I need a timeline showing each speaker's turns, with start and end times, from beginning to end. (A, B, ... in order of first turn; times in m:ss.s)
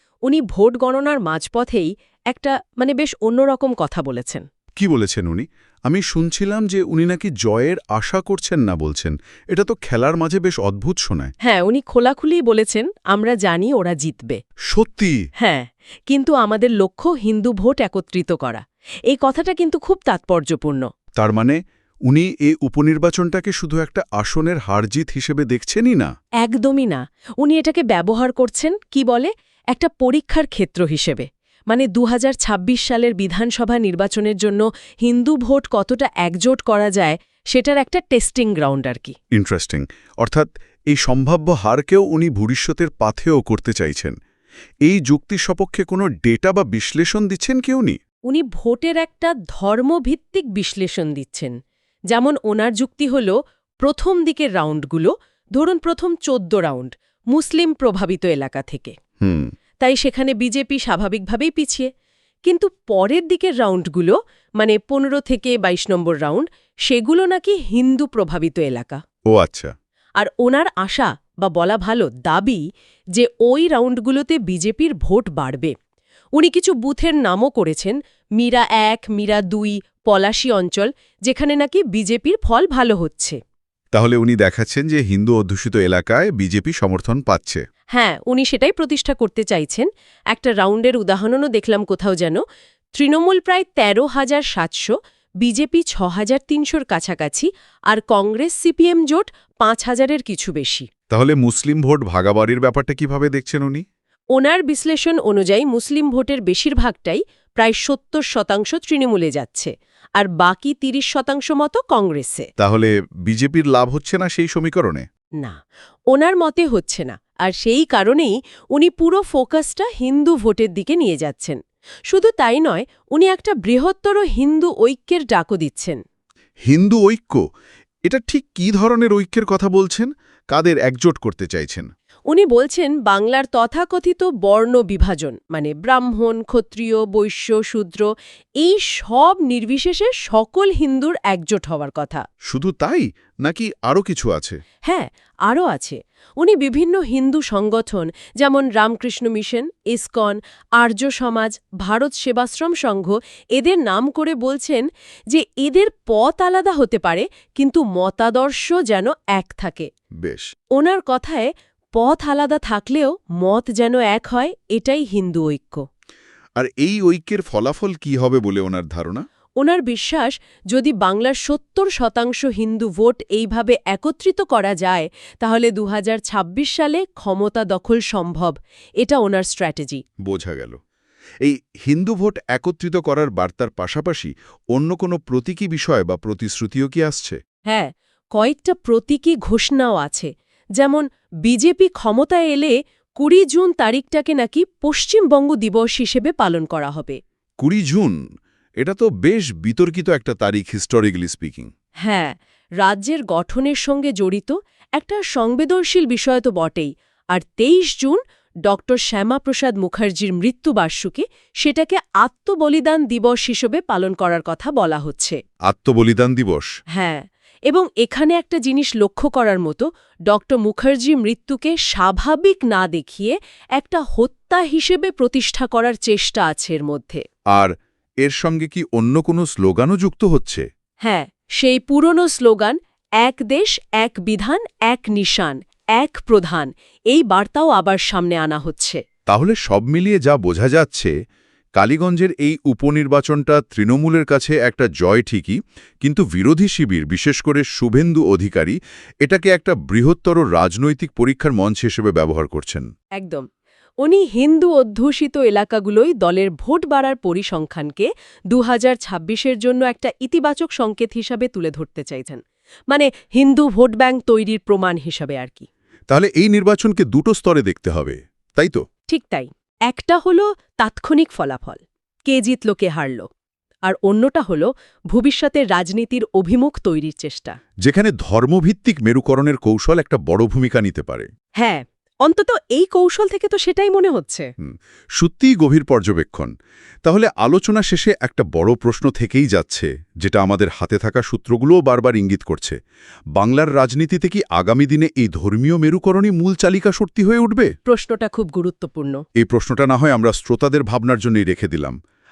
0:00.2-0:04.4 A
0:04.8-0:11.3 B
0:11.4-0:14.4 A
0:14.7-0:15.2 B
0:15.4-0:20.9 A
0:21.2-0:26.1 B
0:26.4-0:39.1 A
0:39.3-0:44.1 B
0:44.8-0:48.0 B
0:48.3-0:51.6 A
0:52.1-0:58.9 A
0:59.2-0:59.5 B
0:59.8-1:01.9 A
1:02.4-1:09.0 A
1:09.3-1:09.7 B
1:10.2-1:12.6 A
1:13.1-1:15.7 A
1:16.4-1:23.4 A
1:23.9-1:27.6 B
1:27.9-1:32.4 A
1:32.9-1:40.8 A
1:41.1-1:43.8 B
1:44.4-1:52.4 A
1:52.6-1:55.0 B
1:56.1-2:06.0 A
2:06.7-2:07.4 B
2:08.0-2:11.9 B
2:12.3-2:18.1 A
2:18.6-2:22.2 A
2:22.5-2:24.6 B
2:24.8-2:39.9 A
2:40.8-2:45.8 A
2:46.6-2:49.2 B
2:49.6-3:00.0 A
3:00.2-3:00.8 B
3:01.4-3:07.4 B
3:07.7-3:17.2 A
3:17.6-3:18.2 B
3:18.8-3:21.7 B
3:22.0-3:35.4 A
3:35.6-3:36.7 B
3:36.9-3:47.2 A
3:47.5-3:50.6 B
3:51.0-3:59.0 A
3:59.3-4:01.1 B
4:01.8-4:12.9 B
4:13.2-4:13.5 A
4:14.0-4:25.7 A
4:26.1-4:28.8 B
4:29.1-4:33.2 A
4:33.8-4:37.6 A
4:37.8-4:41.3 B
4:41.6-4:44.4 A
4:44.6-4:46.5 B
4:47.0-4:52.8 B
4:53.4-4:57.7 B
4:57.9-4:59.2 A
4:59.4-5:01.9 B